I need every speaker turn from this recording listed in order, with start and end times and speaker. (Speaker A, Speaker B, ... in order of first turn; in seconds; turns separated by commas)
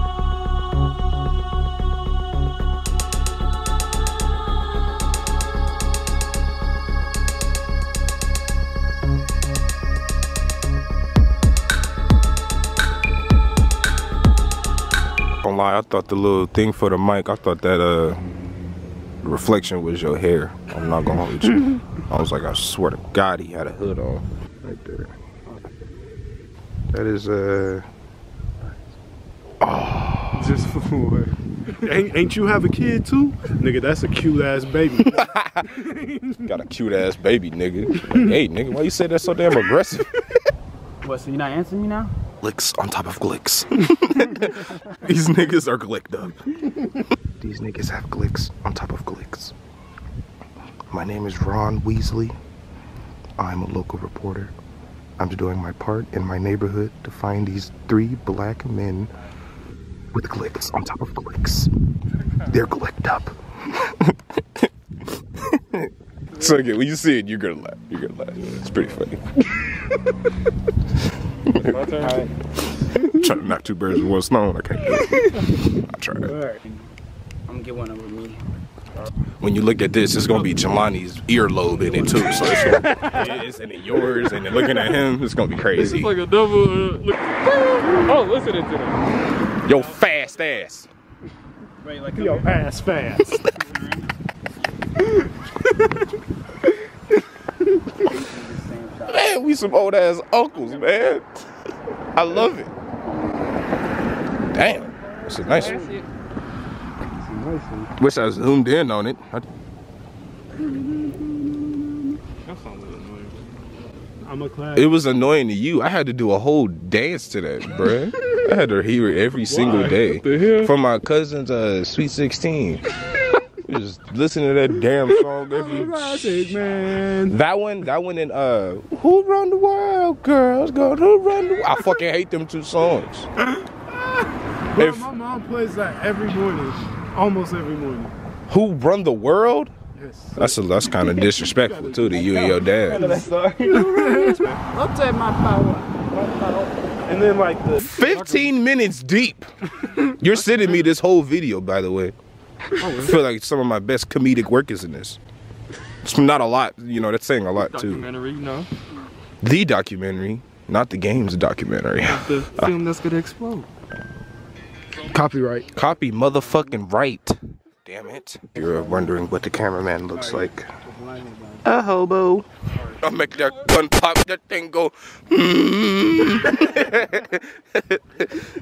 Speaker A: 15.4-18.2, Speaker A: 19.2-25.1, Speaker A: 26.9-27.9, Speaker A: 29.6-30.6, Speaker B: 30.3-36.5, Speaker A: 35.0-35.7, Speaker A: 36.5-40.2, Speaker B: 37.9-38.3, Speaker C: 41.0-42.1, Speaker A: 42.4-46.6, Speaker A: 47.4-49.5, Speaker A: 50.9-52.4, Speaker A: 53.4-54.5, Speaker A: 55.2-59.1, Speaker A: 60.1-61.7, Speaker A: 62.5-64.7, Speaker A: 65.4-69.2, Speaker A: 71.5-71.8, Speaker D: 71.5-72.3, Speaker B: 72.0-72.3, Speaker A: 73.0-76.3, Speaker B: 75.0-75.4, Speaker B: 76.2-76.6, Speaker C: 77.5-78.5, Speaker A: 79.4-86.2, Speaker D: 80.2-80.6, Speaker C: 81.6-83.5, Speaker B: 82.6-83.3, Speaker D: 85.8-89.0, Speaker A: 89.6-90.9, Speaker C: 89.7-90.6, Speaker C: 91.8-92.9, Speaker B: 92.1-93.5, Speaker C: 93.4-94.1, Speaker C: 98.0-99.4, Speaker A: 99.1-101.3, Speaker C: 100.5-101.2, Speaker A: 102.2-102.7, Speaker B: 102.3-102.5, Speaker A: 104.5-105.8, Speaker C: 105.3-105.8, Speaker D: 105.5-106.1, Speaker B: 105.6-106.0, Speaker B: 107.1-107.9, Speaker A: 108.0-109.4, Speaker B: 110.6-112.2, Speaker D: 112.4-113.4, Speaker B: 114.2-114.9, Speaker A: 114.8-122.8, Speaker B: 117.8-118.4, Speaker B: 119.4-120.0, Speaker D: 119.7-120.7, Speaker A: 123.6-126.6, Speaker B: 125.2-127.4, Speaker A: 127.2-133.3, Speaker B: 134.7-138.1, Speaker A: 134.8-135.1, Speaker A: 138.5-139.7, Speaker B: 139.9-144.6, Speaker A: 140.4-143.2, Speaker C: 142.2-147.1, Speaker B: 147.1-147.8, Speaker A: 147.8-149.5, Speaker D: 147.8-148.5, Speaker A: 150.1-152.2, Speaker D: 150.6-150.9, Speaker D: 152.8-153.2, Speaker A: 152.8-155.2, Speaker A: 156.0-158.1, Speaker D: 157.6-158.7, Speaker A: 159.4-162.8, Speaker D: 162.0-163.7, Speaker A: 165.2-170.7, Speaker B: 168.6-169.1, Speaker B: 170.1-171.7, Speaker A: 171.6-172.5, Speaker D: 172.8-173.7, Speaker A: 173.0-178.4